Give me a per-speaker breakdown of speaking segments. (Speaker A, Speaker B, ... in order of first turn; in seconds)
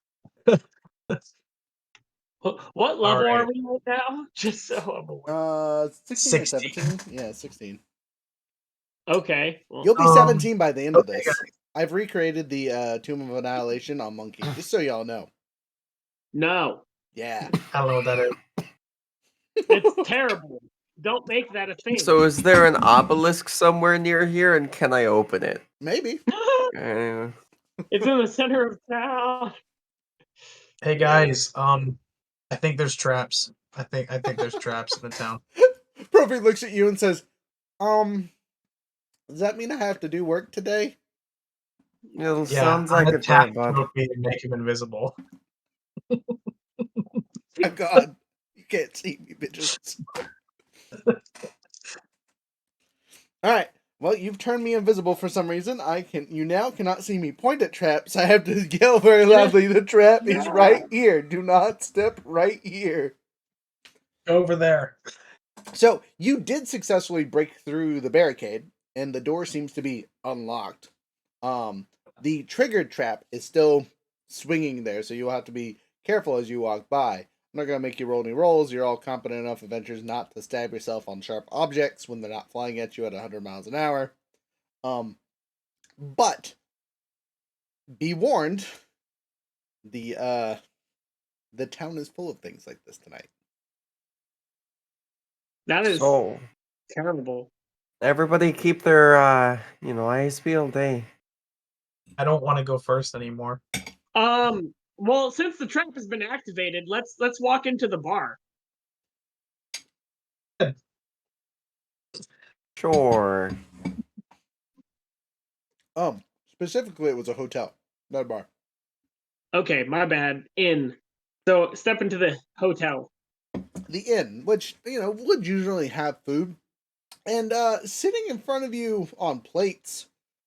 Speaker A: 0.5-1.2, 3.0-3.5, 6.2-6.9, 10.0-11.4, 17.7-18.4, 30.8-32.0, 32.5-35.4, 42.5-45.1, 46.1-46.3, 64.3-65.0, 102.2-103.6
Speaker B: 2.4-5.3, 9.1-9.9, 16.3-16.9, 19.7-22.2, 26.3-26.6, 27.9-29.5, 31.0-31.3, 60.2-60.9, 95.7-96.2, 96.9-97.5, 104.1-108.4, 119.5-123.1
Speaker C: 5.3-7.8, 9.8-15.3, 17.1-17.6, 19.6-19.9, 25.8-26.2, 35.6-37.2, 37.8-38.3, 39.3-41.0, 47.6-50.0, 53.4-63.1, 65.7-70.9, 71.4-84.1, 84.8-85.2, 86.0-86.6, 88.0-88.7, 89.8-90.6, 91.5-93.3, 116.0-118.5, 123.9-126.6, 127.3-130.1
Speaker D: 21.9-25.6, 26.7-27.3, 42.1-43.8, 95.8-96.4, 98.0-101.1, 112.8-113.5